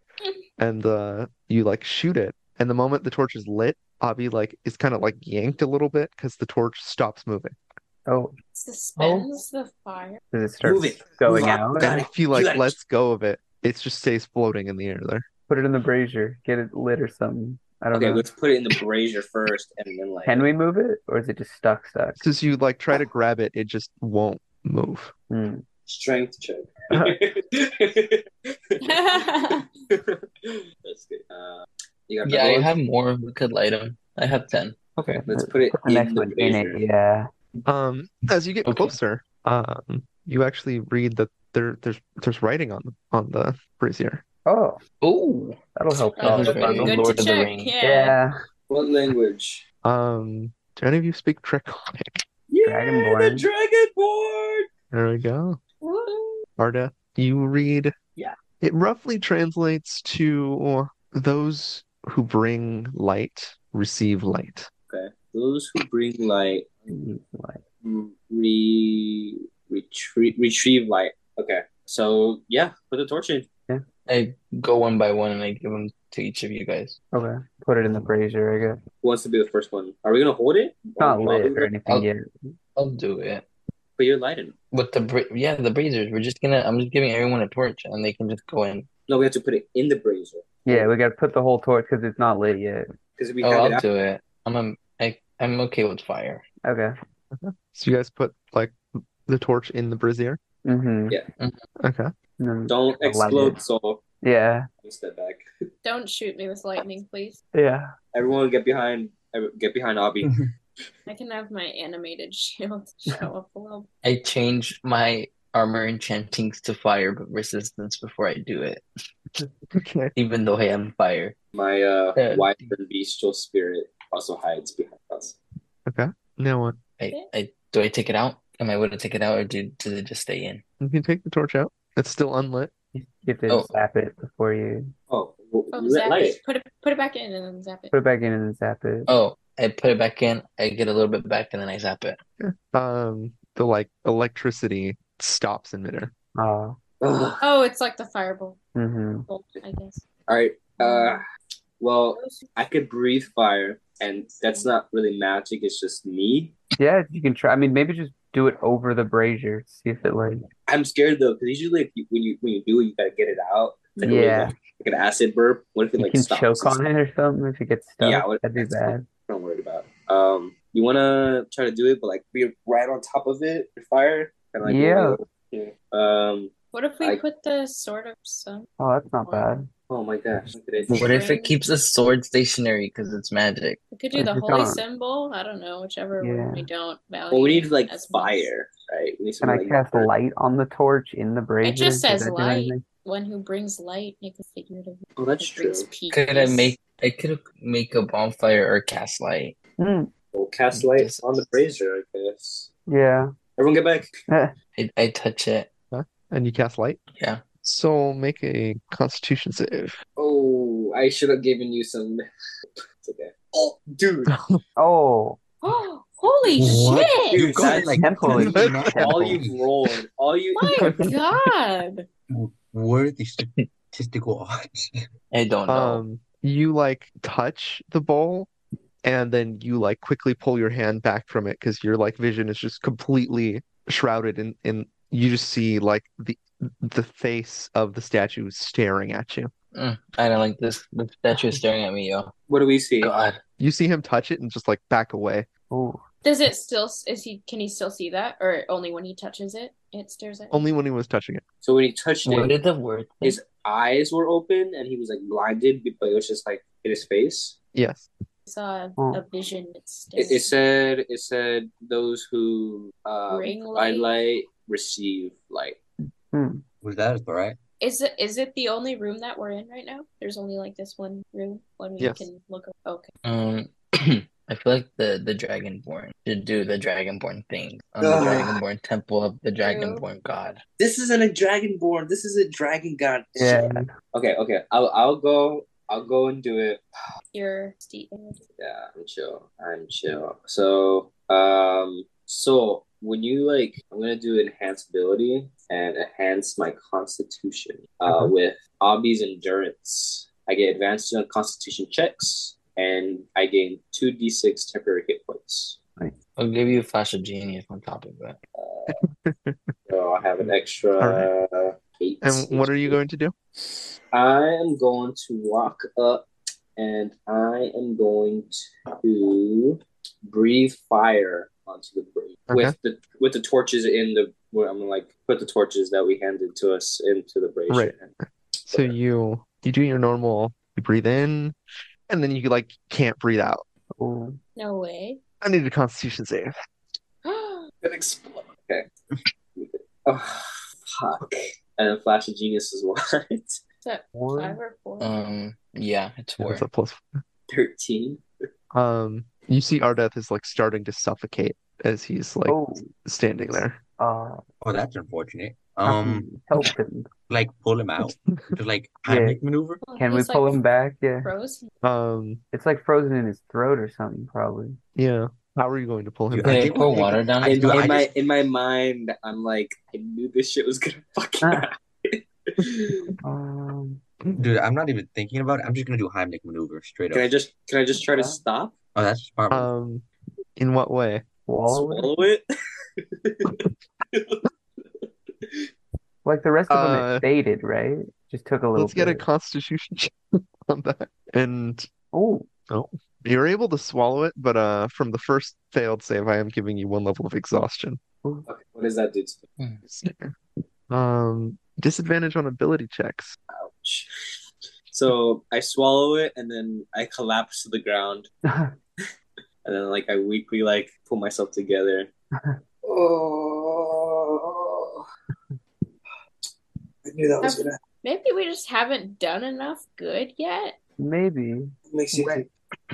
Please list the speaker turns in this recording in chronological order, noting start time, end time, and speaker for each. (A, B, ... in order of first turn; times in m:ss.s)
0:00.6-0:07.6 A
0:08.0-0:08.3 B
0:08.5-0:10.2 C
0:09.0-0:09.3 B
0:10.3-0:11.9 B
0:10.6-0:12.8 D
0:11.8-0:15.2 A
0:15.5-0:18.2 B
0:17.9-0:20.5 D
0:20.2-0:22.2 B
0:22.2-0:25.1 A
0:25.3-0:25.6 B
0:25.9-0:28.2 D
0:28.8-0:29.3 D
0:28.8-0:29.6 C
0:29.9-0:32.8 D
0:32.2-0:34.8 E
0:35.0-0:37.3 B
0:35.3-0:36.8 D
0:37.6-0:44.2 A
0:38.6-0:38.9 E
0:44.4-0:44.8 B
0:45.0-0:45.6 E
0:45.8-0:47.0 B
0:46.2-0:48.2 C
0:46.2-0:47.7 E
0:47.8-0:48.3 B
0:48.7-0:49.6 D
0:49.8-0:52.2 A
0:52.5-0:54.7 D
0:52.6-0:53.4 B
0:54.9-0:55.6 A
0:55.8-0:56.4 C
0:56.6-0:57.9 A
0:58.6-1:04.7 A
1:04.9-1:06.9 D
1:06.9-1:07.6 B
1:07.8-1:13.5 D
1:14.1-1:17.0 E
1:17.1-1:18.8 B
1:19.0-1:21.7 D
1:21.0-1:22.2 B
1:22.8-1:23.4 E
1:24.0-1:24.6 D
1:24.7-1:28.9 E
1:29.1-1:30.9 D
1:30.6-1:32.8 B
1:33.2-1:33.8 D
1:33.4-1:36.4 E
1:36.6-1:36.9 B
1:37.3-1:40.4 A
1:40.6-1:41.2 B
1:41.8-1:42.1 A
1:42.4-1:43.6 B
1:42.7-1:44.0 D
1:44.2-1:44.7 B
1:44.8-1:45.4 D
1:45.8-1:47.4 C
1:47.5-1:47.9 B
1:48.1-1:50.3 D
1:51.1-1:53.9 C
1:54.0-1:58.8 E
1:59.7-2:00.1 A
2:00.1-2:01.3 E
2:01.5-2:05.4 D
2:02.1-2:02.5 E
2:05.9-2:06.8 A
2:07.0-2:10.6 E
2:10.8-2:12.7 A
2:12.9-2:14.9 B
2:13.5-2:13.8 E
2:15.1-2:16.4 D
2:15.7-2:17.9 C
2:17.9-2:19.1 B
2:19.1-2:22.2 E
2:22.4-2:26.1 A
2:26.4-2:26.8 B
2:27.0-2:27.4 D
2:27.4-2:28.6 C
2:28.7-2:29.2 B
2:29.3-2:30.0 C
2:30.3-2:31.2 D
2:30.8-2:31.2 C
2:31.8-2:36.5 D
2:32.1-2:32.5 C
2:36.8-2:40.4 B
2:40.7-2:46.8 D
2:44.0-2:44.5 B
2:46.0-2:49.0 B
2:48.0-2:57.2 D
2:54.6-2:55.2 B
2:56.7-2:58.7 C
2:58.8-2:59.7 B
2:59.9-3:01.2 D
3:00.9-3:03.8 E
3:00.9-3:01.5 C
3:03.9-3:08.5 C
3:04.1-3:04.8 B
3:06.2-3:06.6 B
3:07.3-3:10.1 D
3:09.4-3:12.8 B
3:11.6-3:16.7 C
3:15.2-3:15.9 D
3:16.1-3:19.5 E
3:19.8-3:20.1 B
3:20.3-3:22.7 D
3:20.7-3:21.5 E
3:22.9-3:23.3 B
3:23.6-3:24.1 D
3:24.8-3:25.7 E
3:25.9-3:27.0 A
3:27.2-3:27.4 E
3:27.6-3:30.0 A
3:30.2-3:32.2 D
3:33.0-3:34.3 D
3:34.3-3:34.6 A
3:34.8-3:35.4 B
3:35.6-3:37.4 C
3:36.6-3:39.6 F
3:37.3-3:41.0 D
3:37.9-3:39.2 B
3:38.3-3:39.4 A
3:40.6-3:42.1 C
3:40.8-3:41.1 A
3:42.3-3:44.9 F
3:45.3-3:46.0 E
3:45.7-3:48.5 A
3:49.0-3:59.5 A
3:59.7-4:02.3 E
4:01.3-4:01.6 B
4:02.5-4:03.1 D
4:03.0-4:03.4 E
4:03.6-4:05.5 A
4:05.7-4:06.0 B
4:06.2-4:10.6 C
4:10.5-4:11.4 A
4:11.6-4:12.6 D
4:12.2-4:13.4 E
4:13.2-4:17.6 D
4:17.7-4:18.1 A
4:18.4-4:20.5 C
4:20.2-4:25.8 D
4:23.3-4:24.1 C
4:26.3-4:26.6 B
4:26.8-4:27.6 F
4:27.8-4:33.1 C
4:32.0-4:32.2 A
4:33.2-4:40.6 E
4:38.0-4:38.6 D
4:39.6-4:40.0 C
4:40.8-4:46.8 D
4:43.4-4:43.9 B
4:47.3-4:48.4 C
4:48.6-5:05.8 D
4:58.1-4:58.3 B
5:06.4-5:08.4 E
5:08.5-5:09.0 D
5:08.9-5:09.6 A
5:09.9-5:13.0 D
5:11.0-5:11.3 A
5:12.2-5:13.3 A
5:13.6-5:28.1 D
5:22.5-5:22.7 A
5:27.7-5:28.0 A
5:28.7-5:31.6 A
5:32.1-5:33.6 A
5:34.0-5:34.4 B
5:34.6-5:35.2 C
5:35.4-5:36.5 A
5:37.2-5:37.6 C
5:37.8-5:38.9 D
5:39.6-5:40.4 D
5:41.0-5:43.6 D
5:43.8-5:45.1 C
5:44.1-5:44.6 B
5:45.0-5:46.6 E
5:46.4-5:47.0 A
5:47.5-5:48.2 D
5:48.7-5:53.8 A
5:52.5-5:54.4 B
5:54.6-5:56.3 F
5:55.8-5:57.1 B
5:57.3-5:59.8 F
5:58.0-5:58.5 A
5:59.1-5:59.4 B
5:59.8-6:00.6 C
6:00.0-6:01.3 B
6:01.2-6:01.7 C
6:01.8-6:02.4 A
6:02.5-6:04.8 B
6:05.0-6:07.0 A
6:06.3-6:08.1 F
6:06.4-6:07.9 E
6:07.4-6:13.1 D
6:13.2-6:14.0 B
6:14.4-6:17.3 F
6:17.1-6:18.7 D
6:18.1-6:18.4 B
6:18.9-6:19.7 F
6:19.5-6:20.0 A
6:20.6-6:21.2 A
6:21.5-6:22.1 B
6:21.7-6:22.4 D
6:23.0-6:25.5 D
6:26.2-6:29.2 B
6:26.7-6:27.2 A
6:28.7-6:31.9 A
6:32.1-6:32.5 B
6:32.7-6:38.0 A
6:38.5-6:39.4 D
6:39.8-6:40.3 A
6:40.9-6:43.3 A
6:43.5-6:44.1 D
6:44.9-6:48.3 D
6:49.6-6:52.1 D
6:52.8-6:55.0 D
6:57.0-6:57.8 D
6:57.4-7:00.8 C
7:01.0-7:02.4 B
7:01.9-7:02.5 D